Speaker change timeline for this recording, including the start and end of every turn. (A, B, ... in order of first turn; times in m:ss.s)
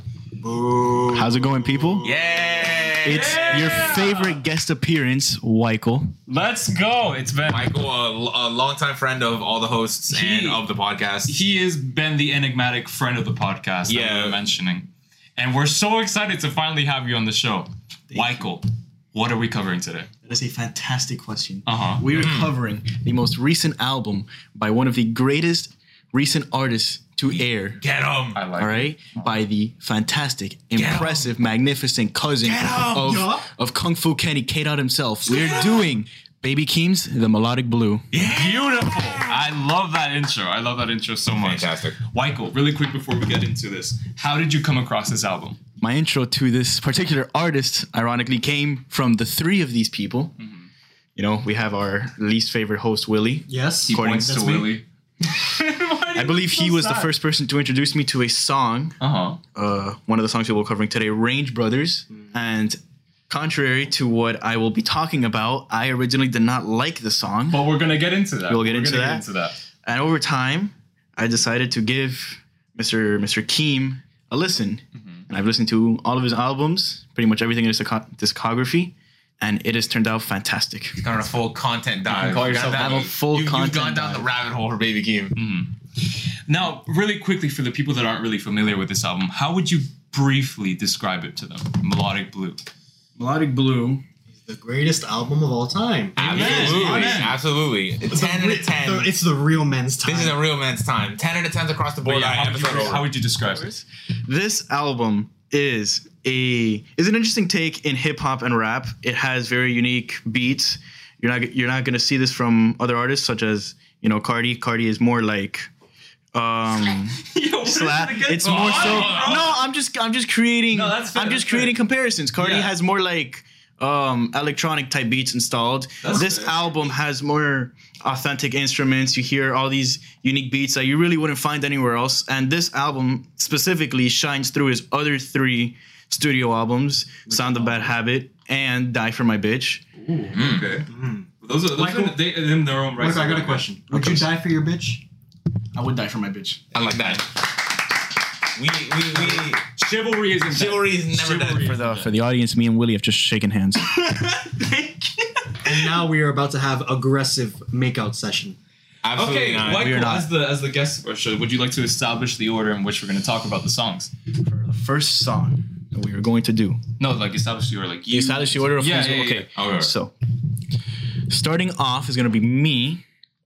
0:00.4-0:02.6 A
0:01.1-0:02.1 B
0:02.0-0:04.1 C
0:03.0-0:06.2 B
0:03.0-0:04.4 D
0:06.3-0:07.7 D
0:07.4-0:11.4 C
0:10.1-0:10.6 D
0:11.3-0:20.1 D
0:13.9-0:14.4 C
0:18.1-0:18.4 B
0:20.2-0:27.8 B
0:21.6-0:22.2 D
0:22.1-0:22.5 C
0:27.3-0:28.4 C
0:28.3-0:29.2 D
0:28.6-0:38.1 B
0:30.7-0:31.3 C
0:32.4-0:33.2 C
0:32.9-0:33.5 A
0:35.3-0:35.8 C
0:38.1-0:39.3 C
0:38.3-0:45.6 D
0:41.3-0:42.0 C
0:45.8-0:50.3 B
0:50.4-0:50.7 D
0:51.2-0:54.5 B
0:53.5-0:54.8 A
0:53.8-0:57.1 D
0:56.1-0:59.0 B
0:59.0-0:59.4 D
0:59.5-1:07.7 B
1:07.5-1:09.6 D
1:08.5-1:09.2 B
1:09.8-1:21.0 B
1:21.0-1:25.4 C
1:22.1-1:23.1 D
1:22.6-1:24.3 B
1:25.3-1:25.7 D
1:26.5-1:32.6 D
1:33.2-1:34.0 B
1:34.3-1:37.2 A
1:36.2-1:37.4 D
1:36.2-1:39.1 C
1:36.3-1:37.3 B
1:38.1-1:40.4 A
1:40.0-1:43.1 C
1:42.0-1:43.7 D
1:43.5-1:55.7 B
1:56.3-2:19.9 B
1:57.1-1:59.5 D
1:58.4-1:59.6 C
2:00.7-2:01.8 D
2:02.4-2:02.7 D
2:06.0-2:06.9 D
2:17.3-2:17.9 A
2:20.0-2:20.9 D
2:20.3-2:20.7 C
2:20.9-2:22.2 A
2:21.4-2:23.7 D
2:23.0-2:25.0 A
2:23.9-2:24.2 B
2:25.7-2:26.6 B
2:26.7-2:27.3 C
2:28.5-2:29.6 C
2:29.6-2:32.1 D
2:30.4-2:31.7 C
2:31.6-2:33.9 B
2:34.0-2:35.1 D
2:35.6-2:38.6 A
2:39.0-2:39.9 C
2:39.1-2:44.1 D
2:39.6-2:40.3 B
2:44.5-2:46.8 B
2:47.0-2:49.6 D
2:48.1-2:50.1 B
2:49.5-2:49.9 C
2:51.3-2:53.0 B